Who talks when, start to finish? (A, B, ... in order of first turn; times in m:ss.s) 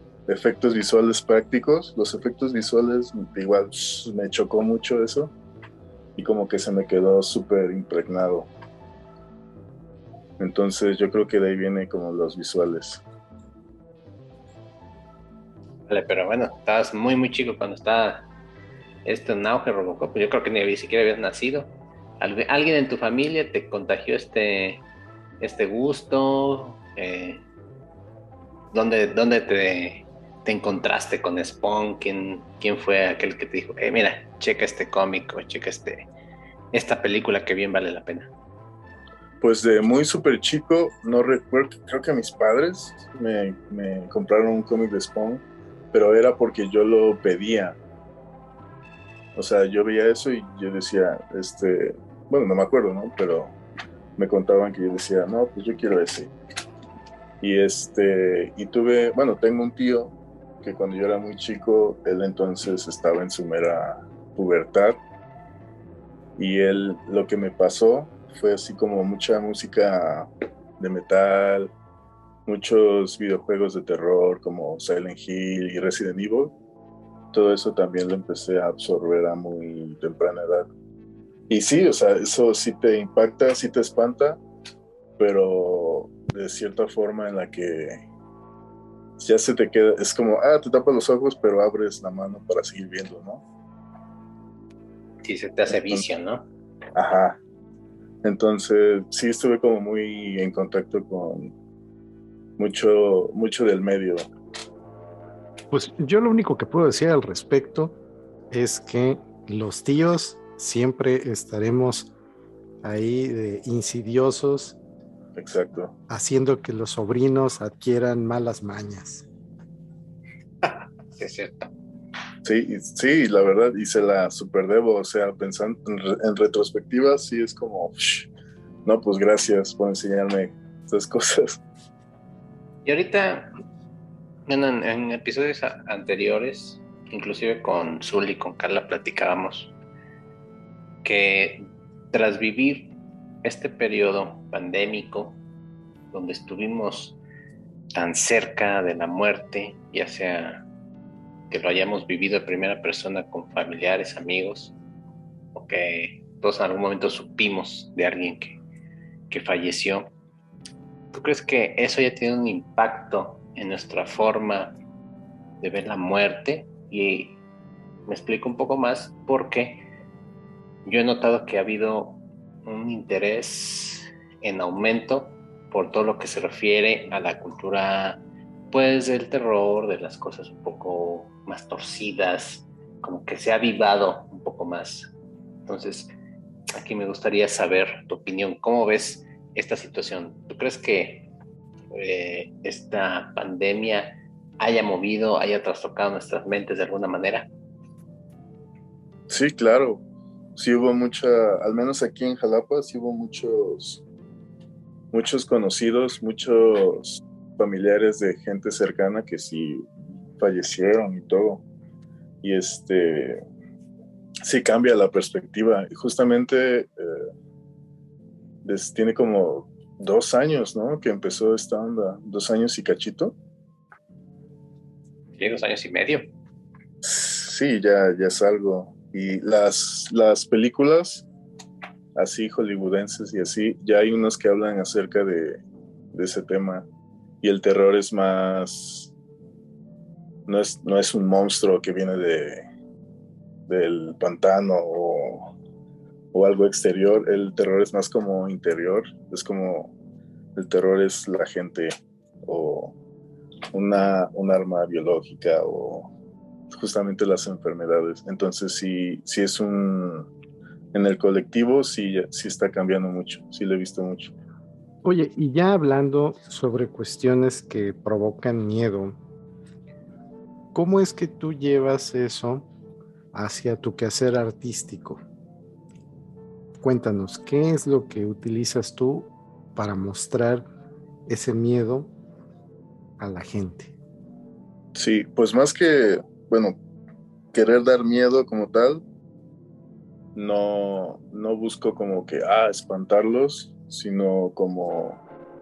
0:00.3-0:05.3 A
0:06.2-0:08.5 A
0:10.4-0:13.0 A
0:15.9-0:18.2 B
0:19.0-0:24.8 B
0:25.4-0:27.4 B
0:28.7-0:36.1 B
0:36.7-0:38.3 B
0:39.4-0:47.8 A
0:49.3-0:53.5 A
0:54.2-0:56.3 A
0:57.4-1:05.0 A
1:06.4-1:11.7 A
1:12.4-1:16.5 A
1:17.3-1:20.7 A
1:21.5-1:24.4 A
1:25.2-1:28.0 A
1:29.2-1:33.4 A
1:35.2-1:36.4 B
1:35.7-1:36.0 A
1:36.9-1:37.4 A
1:38.2-1:41.5 A
1:42.6-1:44.2 A
1:45.7-1:48.0 C
1:48.5-1:52.1 C
1:52.8-1:54.8 C
1:55.4-1:55.9 A
1:56.1-1:59.2 C
2:00.6-2:01.7 B
2:02.4-2:08.3 A
2:08.8-2:11.6 A
2:12.8-2:13.5 B
2:14.5-2:19.7 B
2:21.0-2:25.4 B
2:26.1-2:27.2 B
2:27.9-2:30.6 B
2:31.5-2:34.7 B
2:35.5-2:38.6 B
2:39.3-2:40.1 B
2:41.1-2:44.7 B
2:45.6-2:47.4 B
2:48.0-2:49.8 B
2:50.8-3:05.1 B
3:05.6-3:06.1 B
3:06.8-3:11.3 B
3:11.9-3:17.5 B
3:19.3-3:20.0 A
3:20.6-3:24.0 A
3:25.1-3:31.6 A
3:32.4-3:33.4 A
3:34.4-3:37.2 A
3:38.6-3:43.4 A
3:45.4-3:46.3 B
3:47.0-3:51.3 A
3:52.1-3:55.6 A
3:56.1-3:56.9 A
3:57.4-3:59.1 A
4:00.4-4:02.7 A
4:03.7-4:05.5 A
4:06.3-4:09.9 A
4:10.5-4:11.9 A
4:12.4-4:12.9 A
4:13.7-4:16.1 A
4:16.7-4:20.3 A
4:20.9-4:24.3 A
4:25.0-4:29.2 C
4:30.7-4:32.7 C
4:33.3-4:35.2 C
4:36.8-4:40.6 C
4:41.3-4:42.1 C
4:43.2-4:43.9 C
4:44.9-4:46.8 A
4:47.5-4:49.0 A
4:50.3-4:55.2 A